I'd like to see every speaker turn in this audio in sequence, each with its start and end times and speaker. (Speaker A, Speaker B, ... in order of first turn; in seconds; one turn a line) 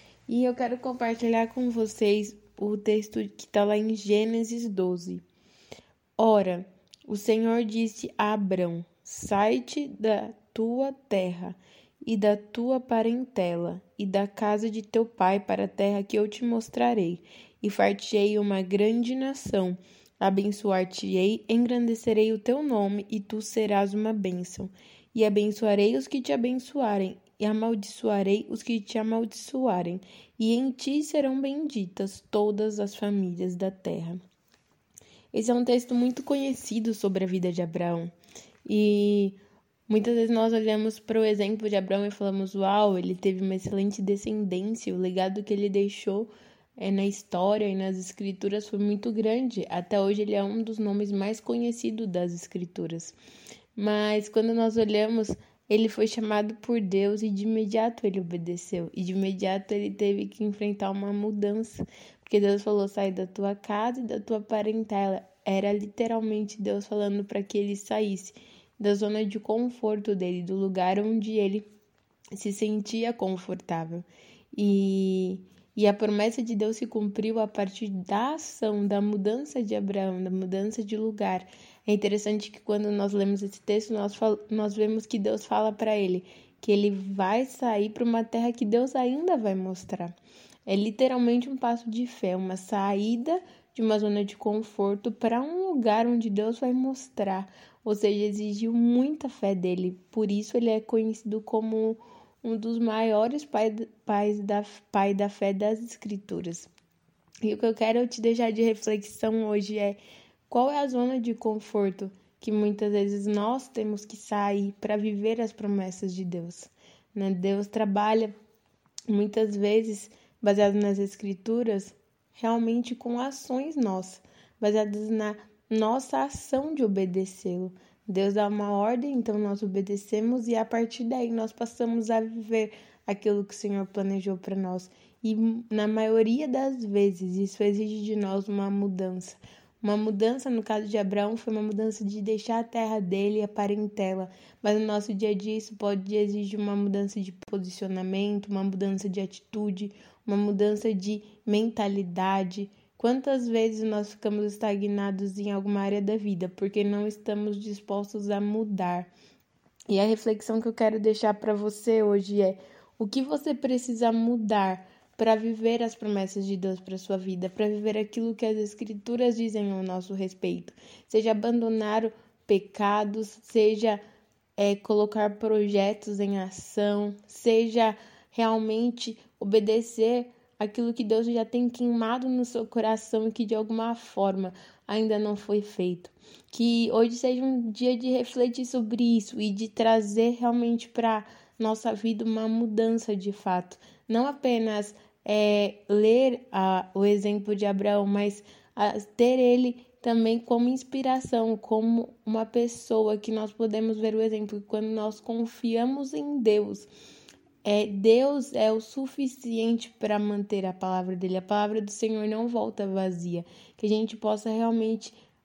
Speaker A: 0.3-5.2
Speaker A: 6.2-34.2
Speaker A: 35.3-38.1
Speaker A: 38.6-53.2
Speaker A: 53.8-71.7
Speaker A: 72.3-90.2
Speaker A: 90.7-106.7
Speaker A: 107.4-118.3
Speaker A: 119.1-159.1
Speaker A: 159.9-174.0
Speaker A: 174.6-206.9
Speaker A: 207.6-215.2